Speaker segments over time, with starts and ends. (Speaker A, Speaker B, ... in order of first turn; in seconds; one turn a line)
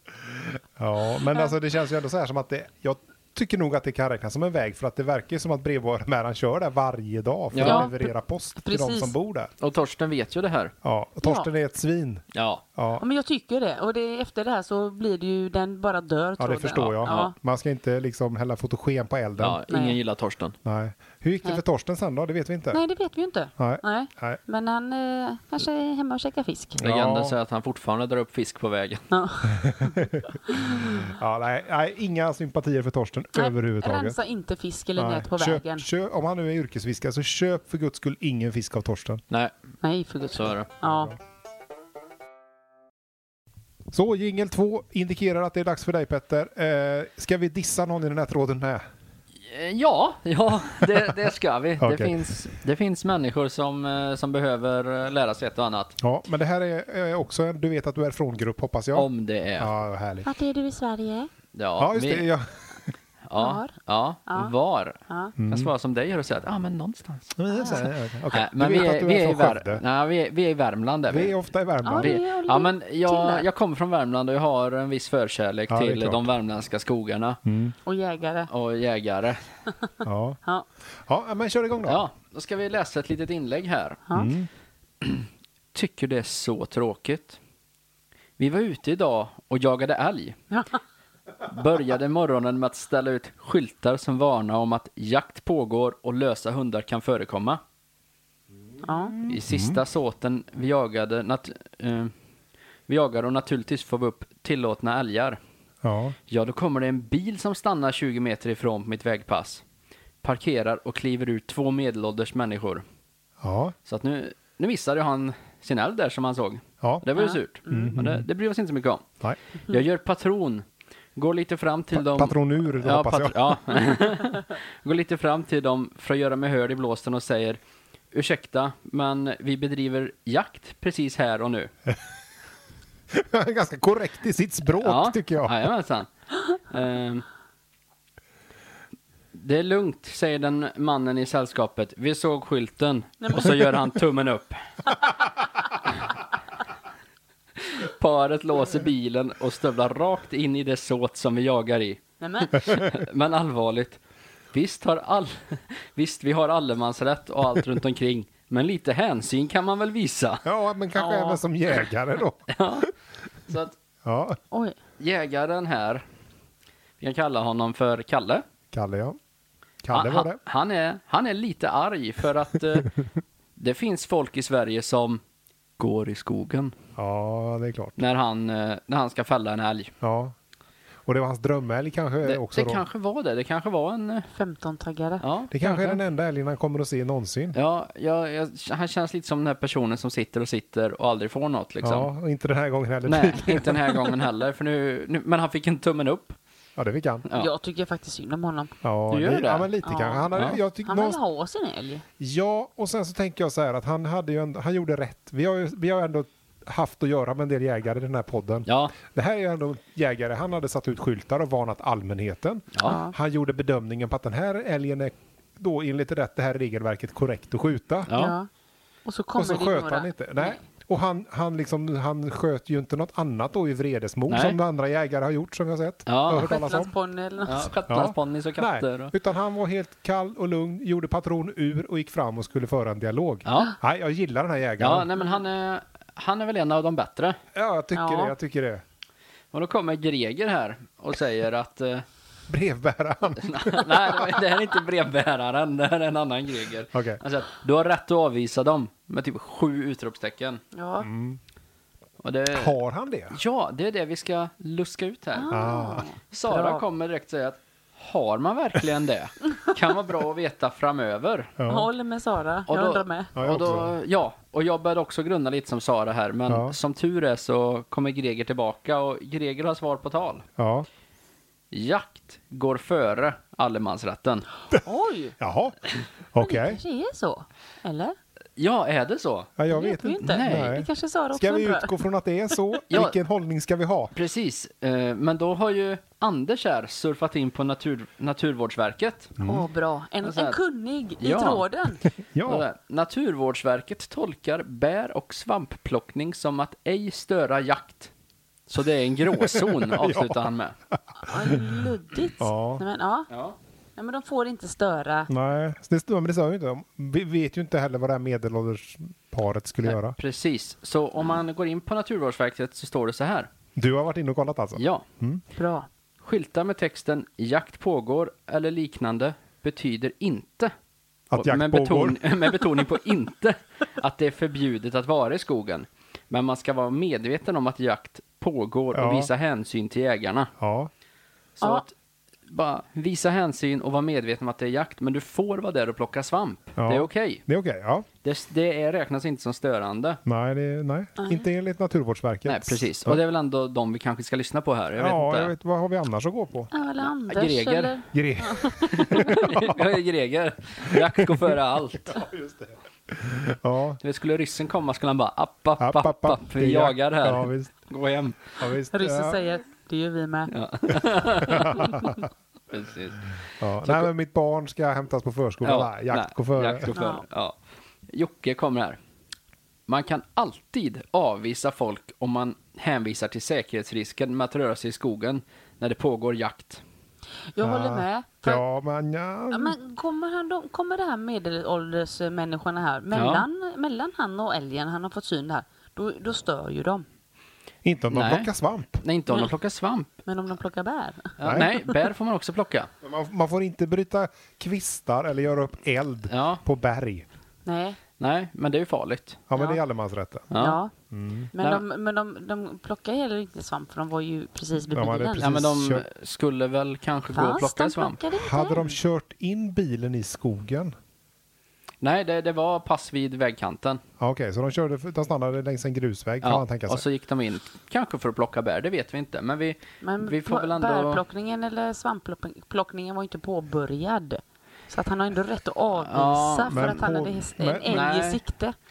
Speaker A: 0.2-9.5
Speaker B: 7.5-7.9
Speaker C: 7.6-9.1
Speaker B: 9.6-10.7
Speaker A: 10.8-12.2
Speaker C: 11.2-11.5
Speaker B: 12.3-12.6
Speaker A: 12.8-13.0
Speaker C: 13.0-17.4
Speaker A: 16.4-19.6
Speaker B: 17.0-17.3
Speaker B: 19.4-20.6
Speaker C: 19.7-20.0
Speaker A: 20.6-22.8
Speaker C: 22.7-26.8
Speaker A: 23.6-24.4
Speaker A: 26.8-27.4
Speaker B: 26.8-29.1
Speaker C: 29.1-31.1
Speaker A: 29.5-34.2
Speaker C: 33.4-35.9
Speaker A: 35.0-39.2
Speaker C: 39.8-41.1
Speaker B: 40.3-40.7
Speaker A: 40.8-41.1
Speaker A: 43.9-48.8
Speaker B: 49.4-56.0
Speaker A: 51.8-52.2
Speaker A: 56.0-60.3
Speaker B: 59.0-59.7
Speaker C: 60.2-61.3
Speaker B: 61.5-62.3
Speaker A: 61.8-62.9
Speaker B: 63.3-67.3
Speaker C: 63.4-63.7
Speaker C: 64.3-64.5
Speaker C: 65.1-65.3
Speaker A: 65.4-65.7
Speaker A: 67.4-69.8
Speaker C: 67.5-67.9
Speaker B: 68.3-71.3
Speaker A: 71.1-72.2
Speaker C: 71.8-73.5
Speaker B: 72.0-77.4
Speaker A: 75.7-76.2
Speaker A: 77.5-77.8
Speaker C: 77.9-78.5
Speaker B: 78.5-79.4
Speaker A: 80.0-80.4
Speaker A: 81.0-82.0
Speaker B: 81.9-84.0
Speaker C: 84.1-84.3
Speaker A: 84.1-84.5
Speaker B: 85.0-87.4
Speaker B: 88.4-90.4
Speaker B: 91.5-97.6
Speaker C: 98.8-99.2
Speaker A: 99.2-99.8
Speaker B: 99.3-102.1
Speaker B: 102.9-105.4
Speaker A: 105.8-106.2
Speaker B: 106.3-109.6
Speaker B: 110.2-112.8
Speaker A: 113.4-113.8
Speaker B: 113.9-119.0
Speaker C: 117.2-118.0
Speaker A: 117.7-118.3
Speaker B: 119.7-120.6
Speaker B: 121.2-127.6
Speaker A: 121.9-123.6
Speaker B: 128.1-131.7
Speaker A: 133.1-135.7
Speaker B: 134.8-137.2
Speaker B: 139.3-144.6
Speaker C: 143.2-143.7
Speaker B: 147.6-154.0
Speaker C: 152.2-152.7
Speaker B: 154.5-160.4
Speaker A: 160.4-162.9
Speaker C: 161.0-161.4
Speaker B: 162.5-162.9
Speaker B: 163.5-163.8
Speaker A: 164.0-164.4
Speaker C: 164.5-164.8
Speaker B: 165.0-166.0
Speaker B: 167.0-168.4
Speaker A: 168.7-169.2
Speaker A: 169.8-170.4
Speaker B: 169.9-172.9
Speaker B: 173.6-175.2
Speaker B: 175.8-176.8
Speaker A: 177.0-178.0
Speaker B: 178.0-179.9
Speaker A: 180.0-180.3
Speaker A: 181.1-182.8
Speaker B: 182.2-184.3
Speaker C: 184.3-185.2
Speaker B: 185.2-186.0
Speaker A: 185.5-187.6
Speaker B: 187.5-192.1
Speaker A: 191.8-194.0
Speaker B: 193.1-196.4
Speaker A: 196.8-197.3
Speaker B: 197.3-197.5
Speaker C: 197.3-198.7
Speaker A: 198.8-201.2
Speaker B: 199.1-199.7
Speaker C: 199.8-202.1
Speaker A: 202.2-218.1
Speaker B: 208.7-209.0
Speaker B: 212.7-213.0
Speaker C: 212.8-213.2
Speaker B: 218.1-218.4
Speaker C: 218.1-218.5
Speaker C: 219.1-220.6
Speaker A: 219.4-226.9
Speaker B: 224.3-224.6
Speaker B: 226.1-226.5
Speaker C: 226.4-227.7
Speaker B: 227.4-229.1
Speaker A: 227.9-235.1
Speaker B: 233.5-233.8
Speaker B: 234.8-237.4
Speaker A: 237.5-238.8
Speaker C: 237.9-238.3
Speaker B: 239.5-242.1
Speaker A: 242.5-244.4
Speaker B: 243.4-250.6
Speaker A: 246.9-247.2
Speaker C: 250.7-251.1
Speaker A: 251.0-251.4
Speaker B: 252.2-252.8
Speaker A: 252.5-253.4
Speaker B: 253.3-255.7
Speaker C: 255.3-256.9
Speaker A: 255.5-256.1
Speaker B: 256.3-261.6
Speaker A: 261.6-261.9
Speaker C: 261.6-263.3
Speaker B: 262.7-270.5
Speaker A: 263.4-263.9
Speaker A: 266.5-266.8
Speaker A: 270.6-270.9
Speaker B: 271.7-274.5
Speaker C: 274.8-275.4
Speaker A: 275.4-275.8
Speaker A: 276.3-276.8
Speaker C: 276.4-278.2
Speaker B: 278.6-279.5
Speaker A: 279.6-284.1
Speaker C: 279.7-282.0
Speaker B: 280.2-280.8
Speaker B: 282.9-283.2
Speaker B: 284.1-289.4
Speaker A: 289.4-289.7
Speaker C: 289.4-292.0
Speaker B: 290.2-290.6
Speaker B: 291.2-291.6
Speaker A: 292.3-292.7
Speaker B: 292.5-298.1
Speaker B: 298.7-300.8
Speaker A: 299.3-300.4
Speaker C: 301.2-303.3
Speaker A: 301.3-301.6
Speaker A: 302.4-302.8
Speaker B: 303.3-303.6
Speaker C: 304.0-305.3
Speaker A: 305.3-310.2
Speaker B: 309.9-313.5
Speaker A: 313.8-315.4
Speaker B: 314.8-315.1
Speaker C: 315.6-315.9
Speaker B: 316.2-320.7
Speaker A: 321.3-322.2
Speaker B: 321.4-330.5
Speaker A: 328.9-329.3
Speaker A: 330.6-330.9
Speaker B: 331.6-331.9
Speaker B: 332.5-337.4
Speaker A: 336.8-338.1
Speaker B: 338.2-340.2
Speaker A: 340.2-343.2
Speaker C: 341.2-341.5
Speaker B: 342.5-345.5
Speaker A: 345.0-346.7
Speaker C: 346.7-349.5
Speaker B: 347.3-348.0
Speaker A: 348.1-350.0
Speaker B: 348.9-352.2
Speaker A: 350.9-354.0
Speaker B: 354.0-358.6
Speaker A: 355.8-357.7
Speaker A: 358.6-359.4
Speaker C: 358.9-360.5
Speaker B: 360.5-362.0
Speaker A: 361.4-362.2
Speaker C: 361.6-362.2
Speaker B: 362.7-364.1
Speaker A: 363.6-366.9
Speaker B: 365.6-367.6
Speaker C: 366.9-367.2
Speaker B: 368.1-369.0
Speaker B: 369.9-376.8
Speaker C: 377.6-378.6
Speaker A: 377.6-379.8
Speaker C: 379.5-387.1
Speaker B: 383.1-383.4
Speaker A: 387.8-389.0
Speaker B: 388.1-388.5
Speaker B: 389.0-390.1
Speaker C: 390.3-392.0
Speaker B: 391.4-392.9
Speaker A: 391.4-391.7
Speaker A: 393.0-397.3
Speaker B: 396.3-396.6
Speaker C: 397.7-398.0
Speaker B: 398.2-399.4
Speaker A: 399.5-400.5
Speaker B: 400.5-400.8
Speaker C: 400.6-400.9
Speaker A: 401.1-401.5
Speaker C: 401.5-405.4
Speaker A: 404.9-406.1
Speaker B: 405.4-408.2
Speaker C: 407.3-408.9
Speaker A: 408.4-410.9
Speaker B: 412.0-414.0
Speaker A: 414.2-417.1
Speaker B: 416.4-421.2
Speaker C: 420.0-428.8
Speaker B: 426.0-426.9
Speaker A: 426.7-428.0
Speaker B: 427.9-428.4